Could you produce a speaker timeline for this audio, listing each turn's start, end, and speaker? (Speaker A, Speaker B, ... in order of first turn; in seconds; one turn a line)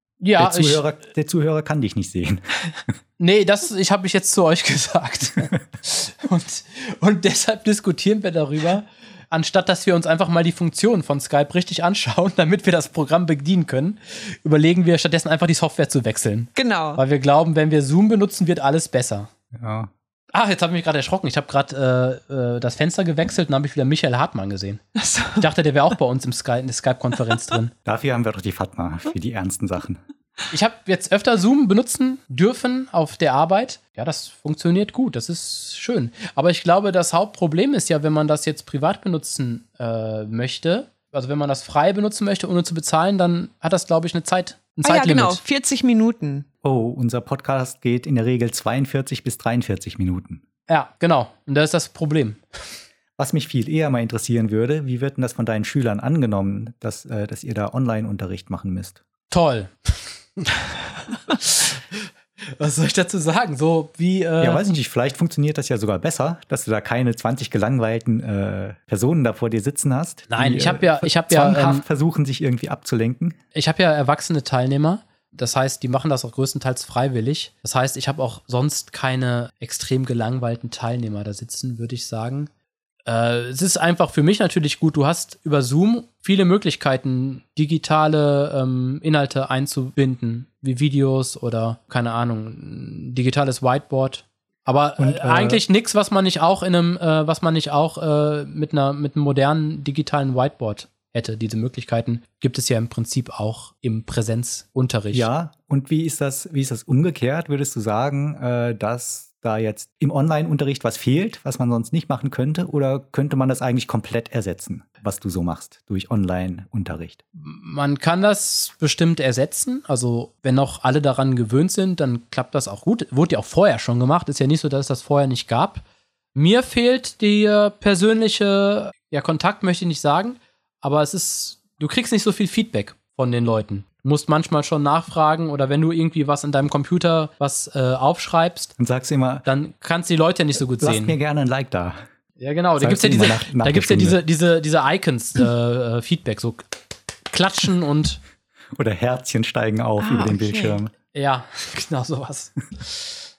Speaker A: 0.2-0.8
Speaker B: 0.4-2.4
Speaker A: 3.2-19.3
Speaker C: 16.5-17.0
Speaker B: 19.5-19.9
Speaker A: 20.3-24.8
Speaker C: 24.9-25.5
Speaker A: 25.4-27.7
Speaker B: 27.8-30.0
Speaker A: 30.5-45.4
Speaker C: 44.8-46.5
Speaker B: 46.6-50.4
Speaker A: 50.7-52.4
Speaker B: 53.2-59.0
Speaker A: 59.3-62.0
Speaker A: 62.6-64.6
Speaker B: 64.4-73.4
Speaker A: 70.3-71.8
Speaker A: 73.5-82.5
Speaker A: 83.0-105.3
Speaker B: 95.0-95.6
Speaker B: 105.1-117.2
Speaker A: 117.4-125.8
Speaker A: 126.3-138.7
Speaker B: 138.8-139.4
Speaker A: 139.4-141.2
Speaker B: 140.8-142.0
Speaker A: 142.4-146.7
Speaker B: 142.8-144.2
Speaker A: 147.3-148.2
Speaker B: 148.7-150.9
Speaker C: 150.0-150.8
Speaker A: 151.1-153.2